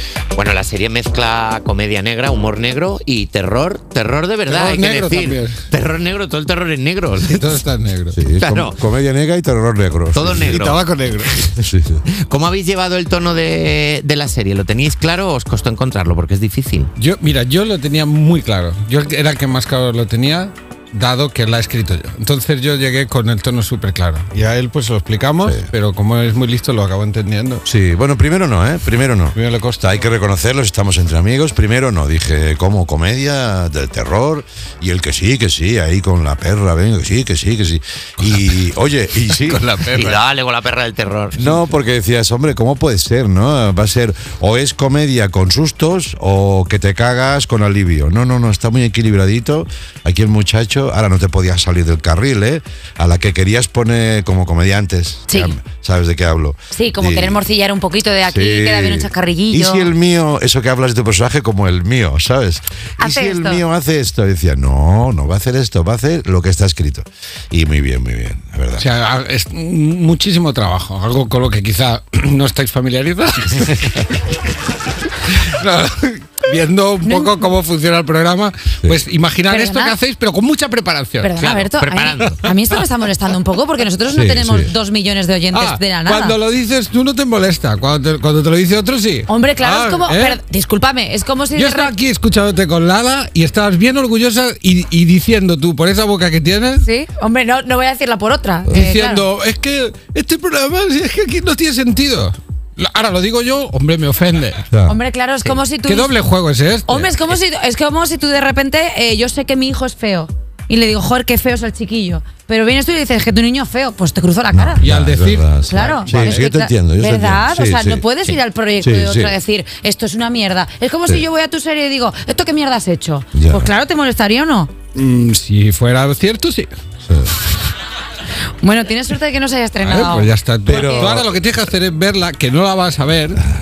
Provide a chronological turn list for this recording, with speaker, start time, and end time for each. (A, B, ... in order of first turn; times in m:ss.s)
0:00.3-0:07.4 A
0:04.5-0:05.6 B
0:07.2-0:08.2 B
0:08.1-0:10.8 C
0:08.4-0:08.8 A
0:10.1-0:10.7 A
0:10.4-0:11.6 B
0:11.6-0:12.0 C
0:12.1-0:16.9 A
0:17.0-0:27.6 B
0:27.6-0:39.9 C
0:29.3-0:30.0 B
0:39.4-0:40.1 B
0:39.9-0:41.5 A
0:41.4-0:57.4 C
0:55.3-0:55.6 D
0:56.7-0:59.9 D
0:58.2-1:08.8 C
1:03.0-1:03.6 D
1:08.8-1:14.2 B
1:15.2-1:21.3 B
1:17.0-1:17.3 D
1:19.5-1:20.0 D
1:21.2-1:26.4 D
1:21.4-1:22.1 A
1:24.1-1:24.7 C
1:25.5-1:30.4 B
1:29.3-1:31.9 D
1:31.5-1:36.9 B
1:36.8-1:39.2 D
1:38.7-1:44.7 B
1:44.7-1:45.0 C
1:44.9-1:46.1 D
1:45.8-1:47.1 B
1:46.8-1:54.8 D
1:54.5-1:58.0 C
1:54.8-1:56.4 B
1:55.7-2:04.7 D
1:58.8-1:59.3 C
2:03.3-2:03.7 C
2:04.9-2:06.7 B
2:08.6-2:11.1 D
2:09.8-2:13.4 B
2:10.6-2:11.3 C